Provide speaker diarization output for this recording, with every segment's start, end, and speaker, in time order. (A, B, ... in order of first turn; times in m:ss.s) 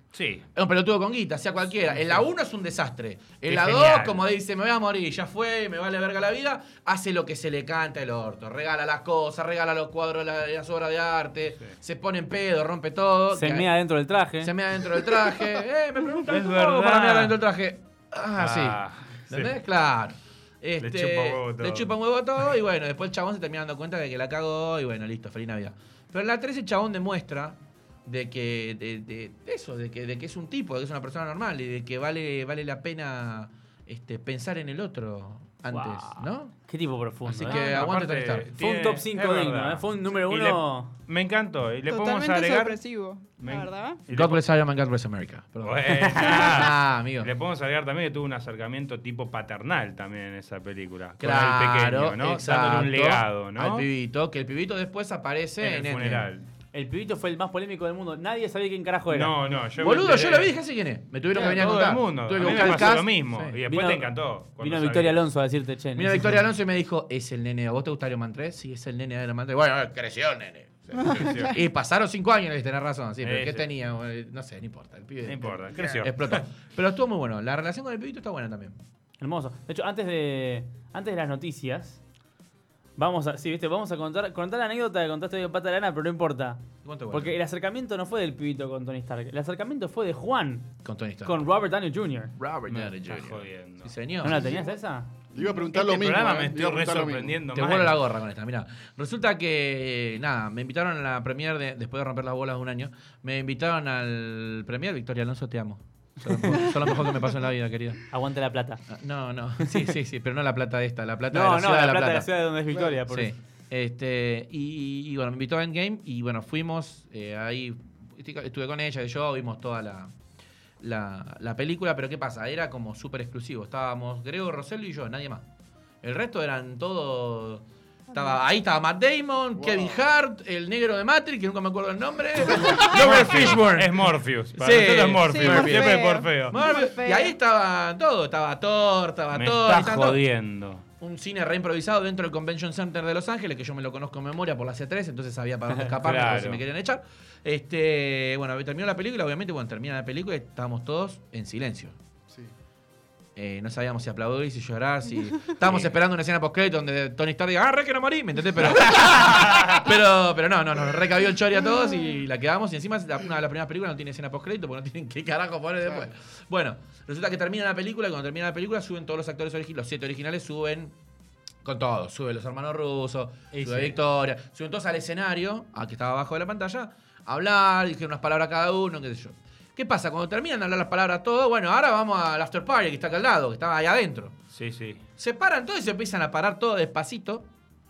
0:00.1-0:00.5 A
0:00.6-0:13.7 B
0:02.0-0:02.2 A
0:03.5-0:04.2 A
0:13.3-0:14.5 C
0:14.4-0:36.5 B
0:16.3-0:17.4 A
0:18.4-0:19.5 A
0:20.8-0:21.9 A
0:35.7-0:37.6 C
0:37.3-0:38.5 B
0:37.4-0:42.8 A
0:37.5-0:37.8 D
0:38.6-0:40.9 C
0:41.9-0:44.0 D
0:43.4-0:44.4 A
0:44.1-0:47.3 B
0:45.6-0:53.9 A
0:51.2-0:56.3 B
0:55.6-0:56.5 A
0:56.7-0:59.4 C
0:59.1-1:00.6 A
0:59.8-1:03.6 B
1:01.3-1:05.2 A
1:03.7-1:06.4 C
1:06.0-1:18.8 B
1:11.0-1:11.6 D
1:11.1-1:11.5 A
1:13.2-1:13.7 A
1:15.2-1:16.4 A
1:19.2-1:22.0 C
1:23.0-1:30.7 C
1:26.8-1:27.4 B
1:30.8-1:31.4 B
1:31.2-1:32.4 C
1:32.4-1:34.6 B
1:32.7-1:33.9 A
1:34.2-1:35.1 C
1:34.3-1:34.6 E
1:35.3-1:37.4 E
1:35.7-1:38.1 A
1:37.5-1:48.0 B
1:46.3-1:46.6 C
1:48.1-1:48.9 C
1:48.9-1:52.3 B
1:49.6-1:49.9 C
1:51.3-1:53.3 C
1:52.7-1:53.0 E
1:53.1-2:00.1 B
2:00.8-2:05.5 B
2:06.0-2:20.2 B
2:09.6-2:10.0 E
2:12.8-2:16.6 A
2:15.3-2:17.3 D
2:19.3-2:20.8 A
2:21.0-2:32.0 B
2:26.0-2:26.6 A
2:33.4-2:50.9 B
2:35.6-2:35.9 A
2:39.3-2:39.8 A
2:51.6-3:04.4 B
2:53.5-2:54.0 C
3:04.5-3:05.0 A
3:05.2-3:07.5 B